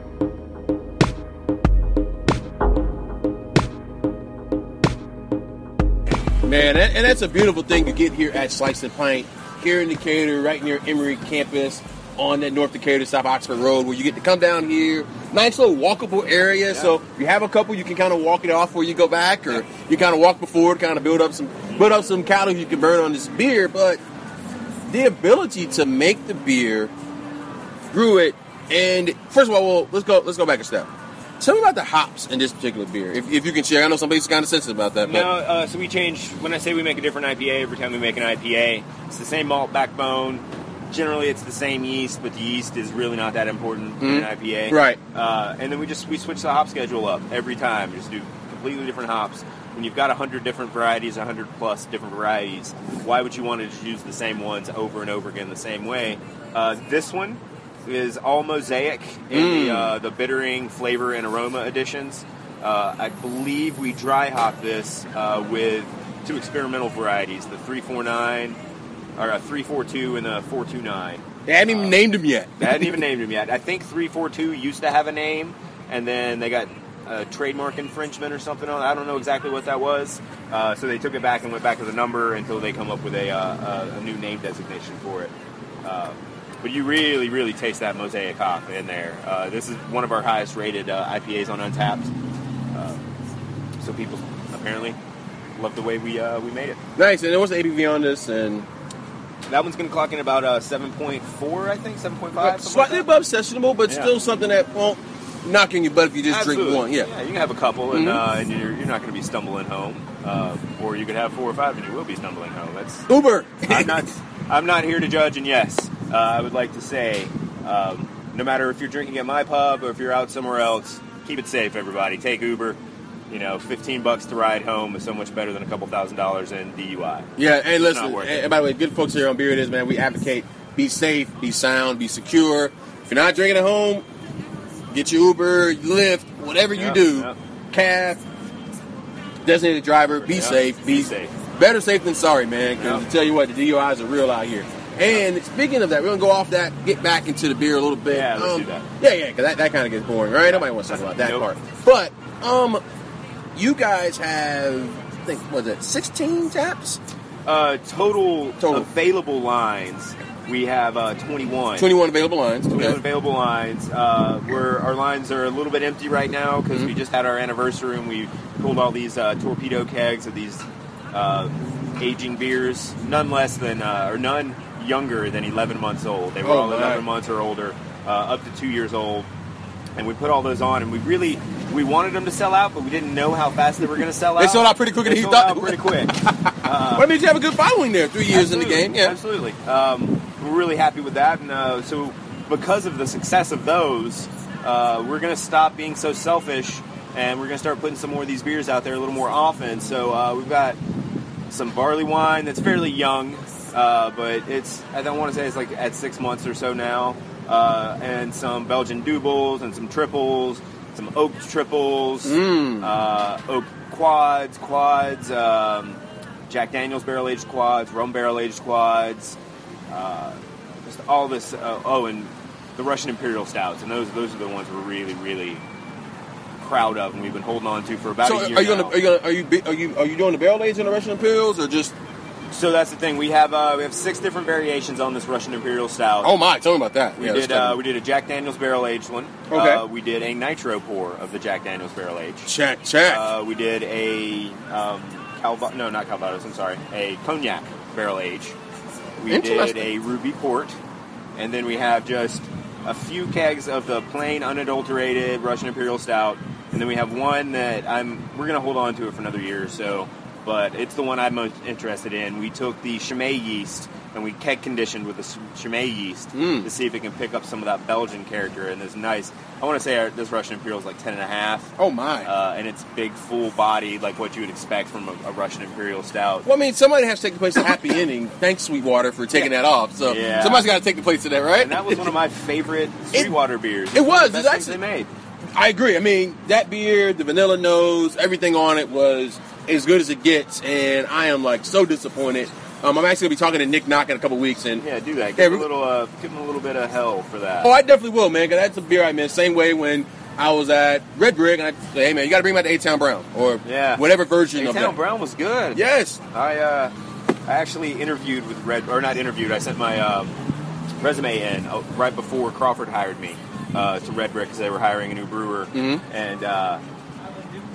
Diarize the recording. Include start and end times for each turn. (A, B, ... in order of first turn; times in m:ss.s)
0:06.4-0:24.0 A
0:24.9-0:26.9 A
0:27.9-0:35.3 A
0:35.0-1:08.6 B
0:44.0-0:45.0 A
0:59.3-0:59.9 A
1:09.2-1:12.0 B
1:11.4-1:13.0 A
1:12.6-1:25.3 B
1:25.8-1:32.1 B
1:32.7-1:33.0 B
1:33.8-1:35.0 B
1:35.6-1:36.8 B
1:37.0-1:38.7 A
1:39.5-1:43.1 B
1:42.4-1:47.1 A
1:46.3-1:53.1 B
1:47.9-1:48.2 A
1:53.1-1:54.0 A
1:53.6-2:02.8 B
2:03.3-2:08.4 B
2:07.4-2:14.0 A
2:14.9-2:18.2 A
2:16.7-2:17.4 B
2:19.4-2:32.8 A
2:20.2-2:21.3 B
2:22.8-2:23.0 B
2:28.1-2:28.9 B
2:30.4-2:31.5 B
2:33.5-2:37.0 A
2:37.4-2:41.9 B
2:38.6-2:38.9 A
2:41.8-2:43.0 A
2:42.7-2:59.3 B
2:56.4-2:57.0 A
3:00.0-3:07.1 B
3:04.4-3:09.2 A
3:08.3-3:20.8 B
3:21.5-3:39.4 B
3:32.2-3:32.9 A
3:39.9-3:45.6 B
3:46.6-3:48.9 B
3:48.2-3:51.9 A
3:52.5-3:56.3 B
3:56.2-3:57.8 A
3:57.2-4:02.5 B
3:59.5-3:59.8 A
4:02.4-4:03.3 A
4:03.0-4:08.6 B
4:09.2-4:10.8 B
4:09.3-4:09.9 A
4:11.4-4:31.7 B
4:26.3-4:26.7 A
4:31.8-4:32.3 A
4:32.2-4:36.5 B
4:36.4-4:42.1 A
4:40.0-4:40.7 B
4:41.6-4:45.1 B
4:43.9-4:44.8 A
4:45.6-4:54.8 A
4:54.8-4:57.7 B
4:55.4-4:55.7 A
4:57.6-5:05.0 A
5:03.6-5:04.0 B
5:04.5-5:06.9 B
5:05.7-5:06.2 A
5:07.4-5:10.3 B
5:11.0-5:16.8 B
5:15.7-5:16.0 A